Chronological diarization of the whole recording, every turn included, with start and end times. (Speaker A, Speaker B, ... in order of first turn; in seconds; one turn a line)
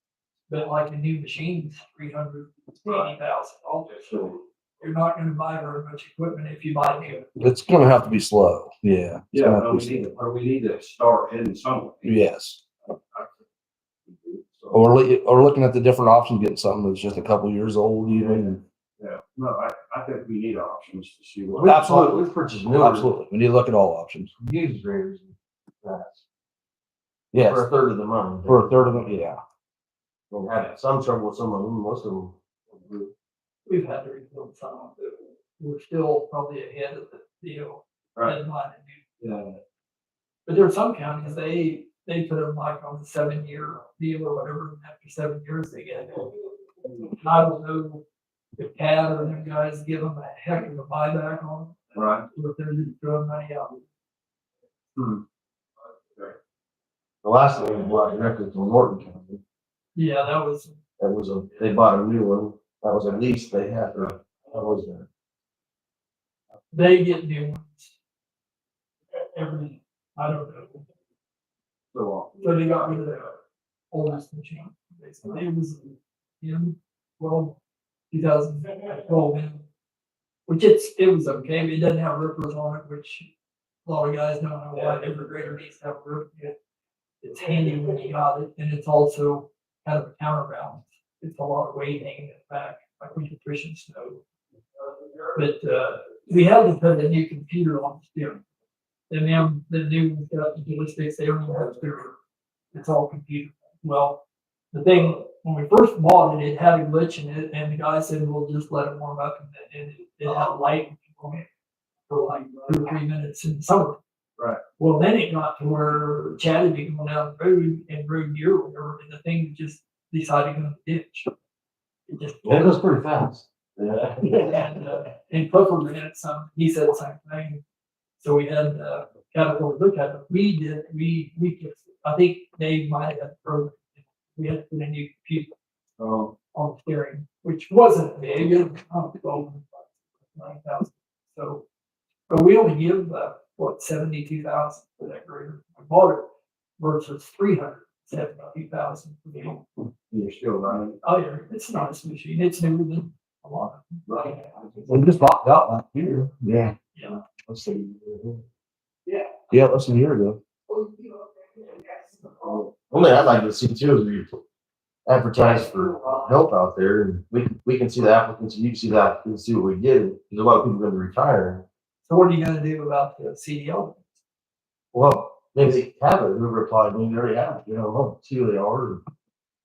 Speaker A: 0.5-7.2
Speaker B: 4.1-4.4
Speaker C: 7.4-10.1
Speaker B: 9.3-12.2
Speaker C: 12.1-12.6
Speaker B: 12.9-13.3
Speaker B: 14.1-14.8
Speaker C: 14.7-18.6
Speaker B: 19.0-21.7
Speaker D: 21.6-23.1
Speaker C: 21.6-24.3
Speaker D: 24.4-26.2
Speaker C: 27.3-27.7
Speaker D: 27.4-28.9
Speaker C: 28.4-29.4
Speaker D: 30.3-32.4
Speaker B: 30.5-30.8
Speaker B: 32.7-33.1
Speaker A: 33.7-39.0
Speaker B: 39.2-39.6
Speaker A: 40.5-46.3
Speaker A: 47.2-48.0
Speaker A: 48.6-53.8
Speaker B: 52.0-52.3
Speaker B: 55.0-55.2
Speaker D: 57.2-59.4
Speaker A: 60.0-60.8
Speaker D: 61.0-65.1
Speaker A: 66.7-68.0
Speaker A: 69.2-70.9
Speaker B: 71.9-73.0
Speaker A: 72.4-73.4
Speaker A: 73.9-77.6
Speaker A: 78.1-79.6
Speaker A: 80.5-83.3
Speaker A: 83.9-86.5
Speaker A: 87.2-94.2
Speaker A: 95.3-98.4
Speaker A: 99.1-102.1
Speaker A: 102.7-111.5
Speaker A: 112.1-114.0
Speaker B: 114.4-114.6
Speaker A: 114.8-121.3
Speaker A: 122.1-122.9
Speaker D: 122.4-124.8
Speaker A: 124.2-127.6
Speaker A: 128.2-135.6
Speaker B: 136.0-136.3
Speaker A: 136.5-141.7
Speaker A: 142.3-146.3
Speaker A: 146.8-149.7
Speaker B: 150.1-151.0
Speaker A: 151.0-154.4
Speaker C: 154.8-156.8
Speaker A: 156.9-157.2
Speaker C: 157.5-158.4
Speaker C: 159.5-160.4
Speaker D: 162.9-164.4
Speaker D: 165.1-171.7
Speaker A: 172.1-174.0
Speaker D: 174.9-179.0